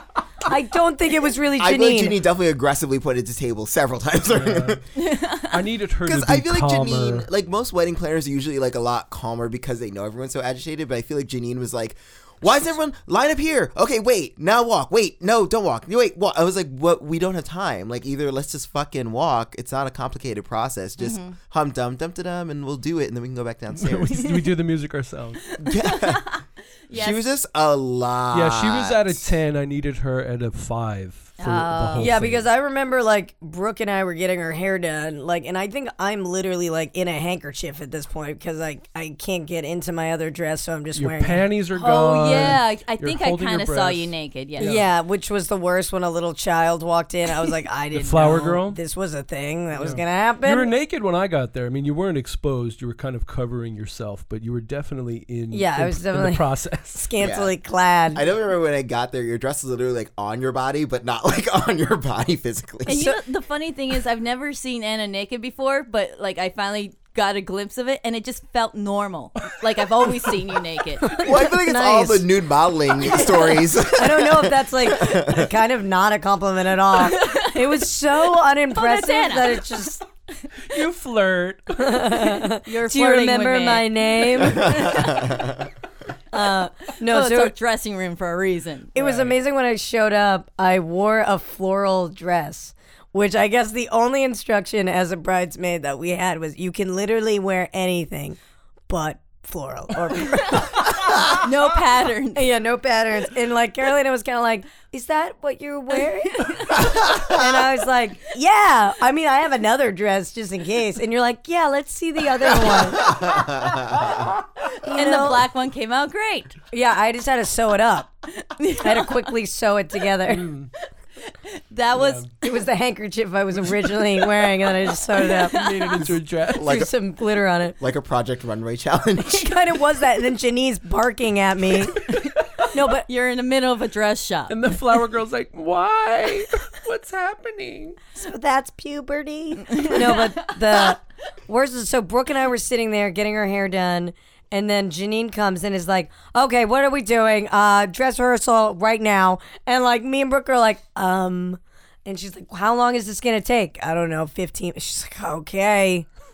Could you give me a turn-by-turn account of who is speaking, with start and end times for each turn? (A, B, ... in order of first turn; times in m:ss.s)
0:00.4-0:02.2 A
0:01.6-0:04.8 B
0:04.3-0:04.8 C
0:05.0-0:05.5 D
0:05.5-0:07.3 C
0:06.0-0:24.3 B
0:21.0-0:21.4 D
0:23.7-0:25.4 C
0:25.5-0:27.3 D
0:25.6-0:26.4 B
0:26.9-0:29.2 B
0:28.3-0:32.5 C
0:31.4-0:32.1 D
0:32.0-0:41.4 A
0:40.9-0:44.9 C
0:41.7-0:44.8 D
0:44.6-0:50.7 A
0:47.9-0:48.8 C
0:49.7-0:57.1 C
0:55.5-0:58.2 A
0:57.2-0:57.5 B
0:58.1-1:03.1 B
1:02.9-1:11.2 D
1:11.0-1:12.3 A
1:11.2-1:15.5 B
1:13.9-1:20.0 A
1:17.0-1:17.8 D
1:18.7-1:19.7 D
1:20.6-1:22.1 C
1:21.8-1:25.2 A
1:22.6-1:25.4 D
1:24.6-1:25.6 B
1:26.3-1:27.5 A
1:27.0-1:29.0 D
1:28.9-1:41.5 A
1:29.0-1:29.4 C
1:41.3-1:42.5 D
1:42.3-1:53.2 A
1:46.4-1:46.9 D
1:52.8-1:54.3 B
1:54.8-1:55.5 A
1:54.8-1:56.6 D
1:56.7-1:58.1 A
1:58.4-1:59.3 D
1:58.8-2:00.5 A
2:00.2-2:00.7 C
2:01.2-2:02.3 D
2:01.9-2:02.3 C
2:02.4-2:07.8 A
2:05.1-2:06.1 D
2:05.5-2:06.8 C
2:06.5-2:06.9 B
2:07.8-2:09.5 B
2:09.2-2:12.1 A
2:12.7-2:13.1 A
2:12.8-2:14.6 D
2:14.5-2:18.0 C
2:18.1-2:36.1 A
2:19.7-2:20.9 D